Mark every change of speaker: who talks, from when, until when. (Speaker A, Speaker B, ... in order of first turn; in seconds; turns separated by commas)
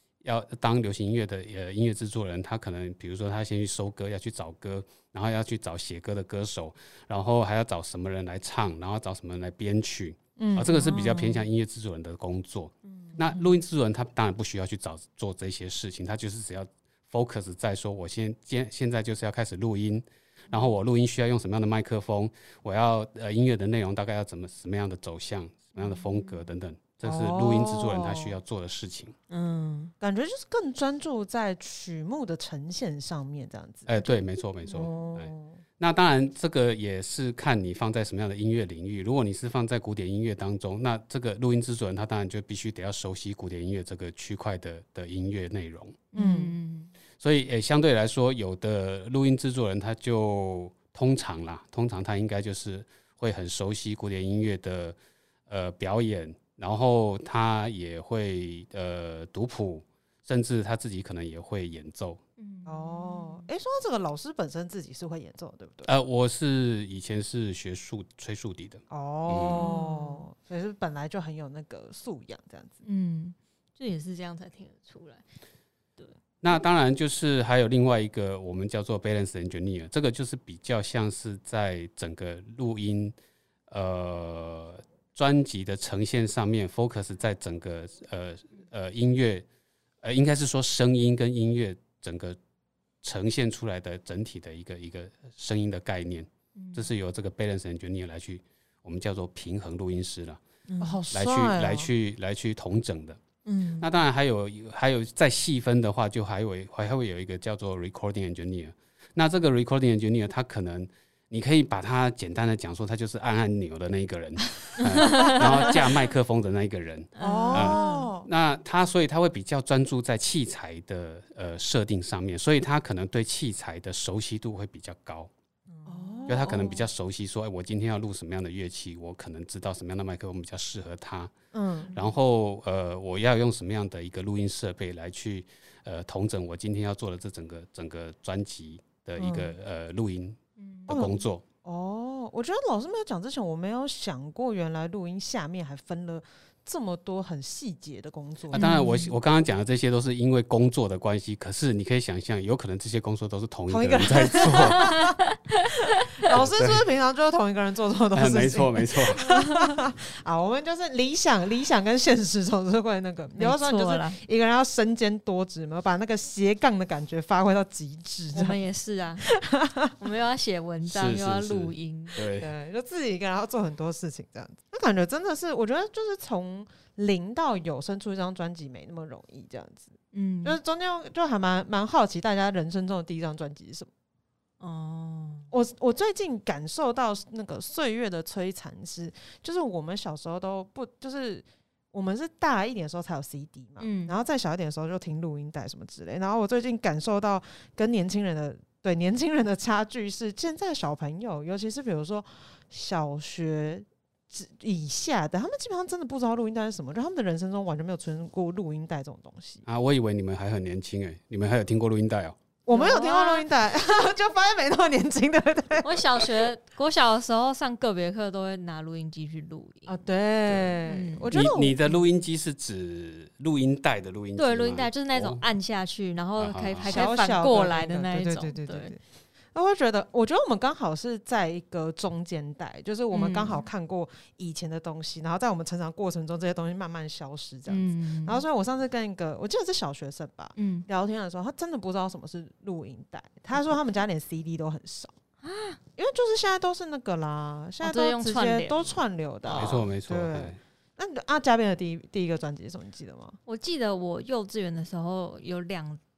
Speaker A: 0.2-29.1, Speaker B: 10.4-11.0, Speaker C: 10.7-11.4, Speaker C: 12.8-13.5, Speaker C: 25.8-26.4, Speaker B: 27.0-28.4, Speaker C: 29.3-29.9, Speaker B: 30.0-34.0, Speaker A: 33.9-46.0, Speaker B: 34.7-35.6, Speaker C: 46.1-46.9, Speaker B: 46.1-46.5, Speaker A: 47.2-55.0, Speaker A: 55.5-62.2, Speaker C: 62.4-63.5, Speaker B: 62.6-65.9, Speaker A: 65.8-69.7, Speaker B: 68.9-72.8, Speaker C: 69.3-70.2, Speaker C: 72.8-75.2, Speaker A: 76.4-83.1, Speaker A: 83.7-89.4, Speaker A: 90.0-92.4, Speaker A: 93.0-100.4, Speaker C: 96.5-96.9, Speaker C: 100.7-101.0, Speaker B: 100.8-101.9, Speaker A: 101.1-103.2, Speaker C: 103.4-103.8, Speaker A: 103.8-125.3, Speaker C: 114.8-115.8, Speaker C: 117.2-118.1, Speaker B: 117.2-118.3, Speaker C: 125.7-126.6, Speaker B: 125.8-126.8, Speaker A: 126.3-131.3, Speaker B: 131.5-131.9, Speaker C: 131.8-132.1, Speaker A: 131.9-141.4, Speaker B: 139.2-139.5, Speaker C: 140.6-141.1, Speaker B: 140.9-148.8, Speaker A: 148.5-155.0, Speaker C: 148.5-149.1, Speaker B: 153.7-155.2, Speaker C: 154.4-155.7, Speaker B: 155.9-168.6, Speaker A: 156.3-156.8, Speaker A: 158.1-159.2, Speaker C: 159.2-159.8, Speaker C: 163.4-164.2, Speaker C: 168.3-169.4, Speaker B: 169.3-169.9, Speaker C: 169.9-172.2, Speaker A: 170.8-172.5, Speaker B: 172.3-183.9, Speaker C: 180.1-180.6, Speaker C: 184.6-185.5, Speaker B: 185.5-209.6, Speaker C: 193.8-194.2, Speaker A: 209.7-212.4, Speaker B: 212.7-215.9, Speaker C: 212.7-213.5, Speaker C: 215.8-220.0, Speaker B: 219.8-221.9, Speaker C: 220.8-221.3, Speaker A: 221.3-225.4, Speaker C: 224.3-228.9, Speaker A: 226.3-227.0, Speaker B: 226.8-229.0, Speaker B: 229.5-245.1, Speaker C: 233.1-233.6, Speaker C: 237.7-238.4, Speaker C: 240.6-240.9, Speaker C: 245.4-245.8, Speaker B: 245.9-253.4, Speaker C: 247.8-249.8, Speaker A: 249.6-250.6, Speaker C: 253.4-256.0